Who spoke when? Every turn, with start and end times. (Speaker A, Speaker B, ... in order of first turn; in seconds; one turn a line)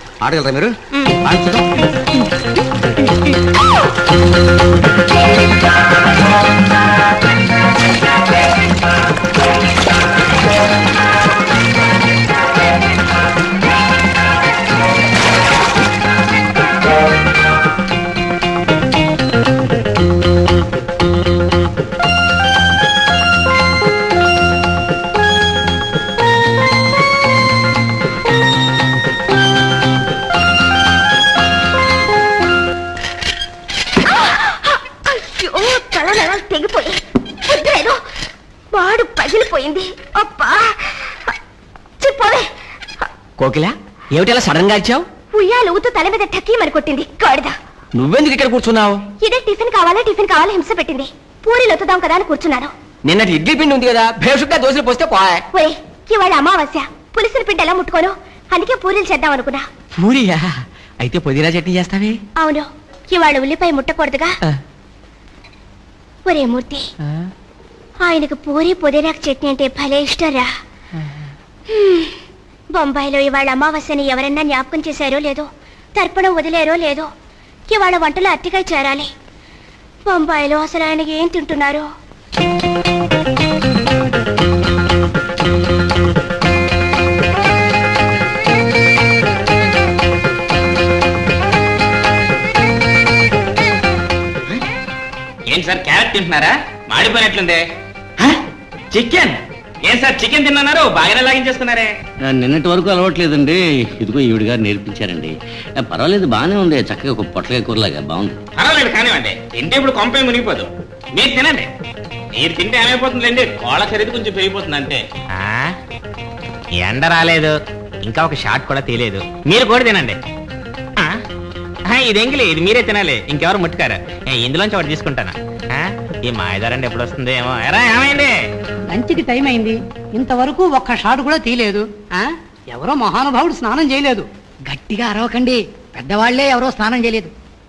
Speaker A: 0.2-1.7
Speaker B: 34.1-38.0
Speaker B: 38.7-41.4
Speaker B: 42.0-42.5
Speaker C: 43.4-45.1
Speaker B: 45.3-47.5
Speaker C: 48.0-49.0
Speaker B: 49.2-52.7
Speaker C: 53.1-55.4
Speaker B: 55.5-59.7
Speaker C: 60.0-62.2
Speaker B: 62.4-64.3
Speaker B: 66.2-66.9
Speaker B: 68.0-70.5
Speaker B: 71.7-72.2
Speaker B: 72.7-77.1
Speaker B: 77.7-79.1
Speaker B: 80.0-81.9
Speaker D: 95.5-97.6
Speaker D: 98.9-101.9
Speaker A: 102.2-108.4
Speaker D: 108.6-111.7
Speaker D: 112.3-115.8
Speaker D: 116.8-120.2
Speaker D: 121.9-128.3
Speaker E: 128.9-137.3